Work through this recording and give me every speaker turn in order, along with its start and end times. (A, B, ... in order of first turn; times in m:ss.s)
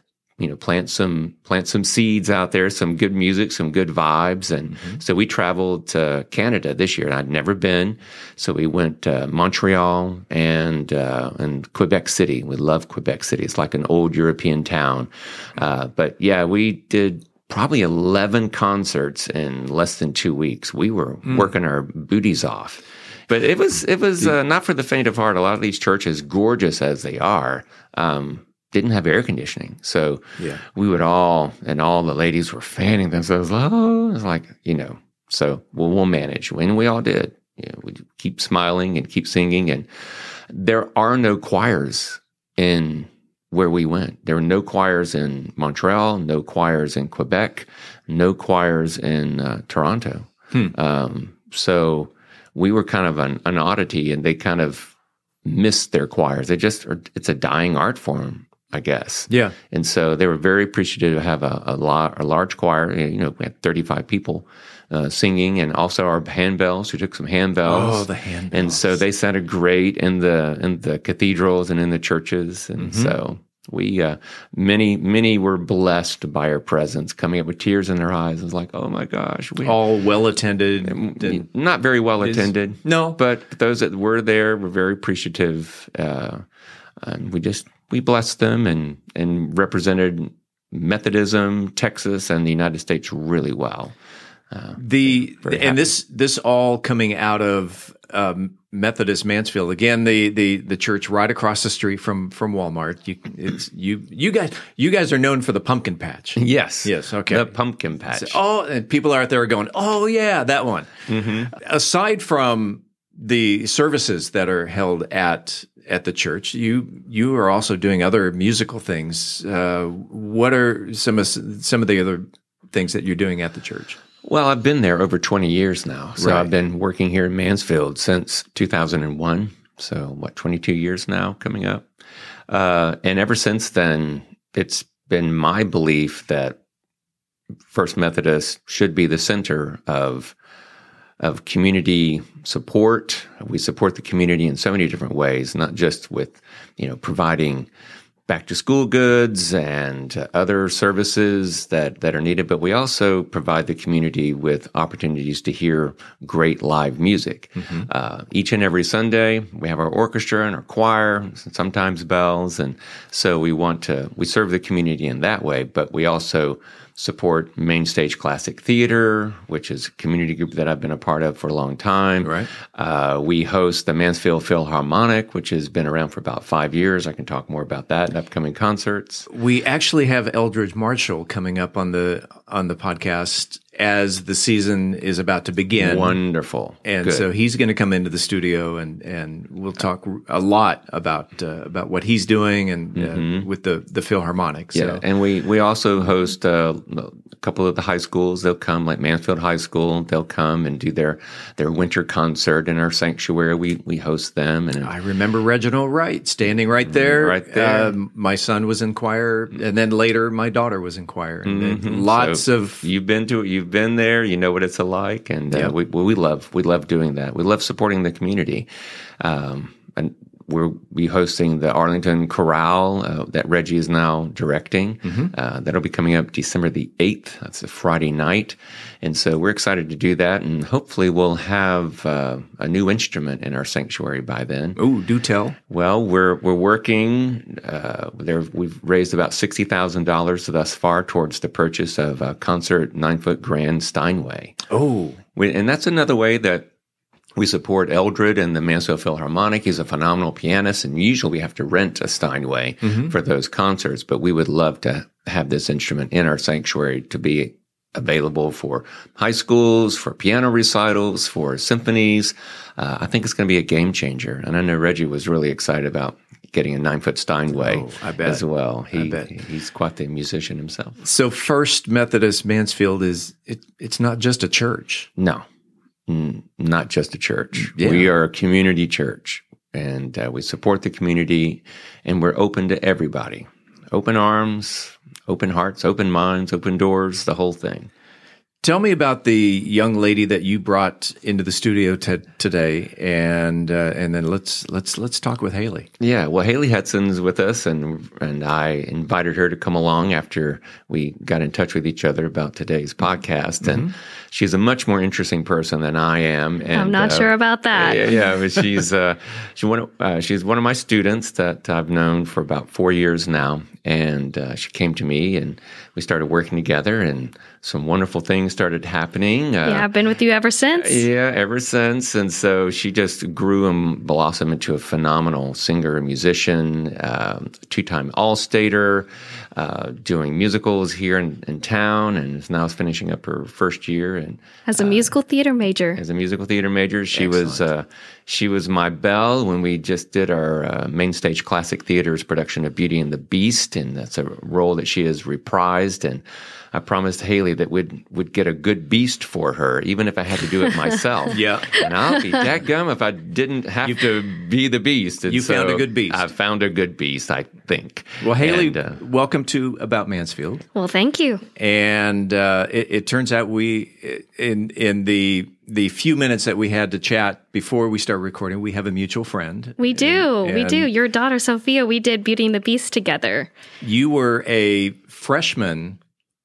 0:00.4-0:39.9 A
0:04.7-0:05.0 B
0:21.2-0:21.5 B
0:30.4-0:30.6 B
0:40.5-0:54.9 A
0:55.4-1:19.8 A
0:59.3-0:59.5 B
1:07.6-1:09.0 B
1:12.8-1:13.1 B
1:19.6-1:21.4 B
1:20.8-1:26.4 A
1:22.2-1:23.2 B
1:27.0-1:33.9 A
1:34.5-1:35.8 A
1:34.8-1:47.5 B
1:46.4-1:48.4 A
1:48.1-1:51.0 B
1:51.1-1:51.5 A
1:51.5-2:04.0 B
2:04.2-2:11.9 A
2:06.2-2:06.5 B
2:12.5-2:16.6 A
2:17.7-2:20.3 A
2:21.2-2:27.7 A
2:28.3-2:59.3 A
2:37.6-2:37.9 B
2:52.2-2:52.5 B
2:59.3-3:06.2 B
3:05.8-3:07.3 A
3:06.8-3:15.0 B
3:13.0-3:13.5 A
3:14.7-3:24.9 A
3:24.8-3:32.9 B
3:26.8-3:27.9 A
3:31.4-3:38.7 A
3:39.2-3:54.8 A
3:45.0-3:45.3 B
3:54.8-3:55.6 B
3:55.7-4:04.6 A
4:04.7-4:05.2 B
4:05.3-4:06.7 A
4:07.4-4:31.0 A
4:12.8-4:13.1 B
4:27.5-4:29.3 B
4:31.0-4:35.1 B
4:35.2-4:35.4 A
4:36.1-4:47.9 A
4:37.6-4:38.1 B
4:48.6-4:55.9 B
4:56.0-5:19.9 A
5:03.6-5:03.9 B
5:06.7-5:08.1 C
5:19.6-5:21.0 C
5:20.8-5:35.1 A
5:34.7-5:36.0 C
5:36.0-5:59.0 A
5:37.1-5:37.7 B
5:51.3-5:51.7 B
5:53.8-5:54.2 B
5:55.3-5:56.2 B
5:58.2-6:00.6 B
6:00.7-6:01.4 C
6:01.6-6:10.9 B
6:09.8-6:13.5 C
6:13.8-6:16.0 B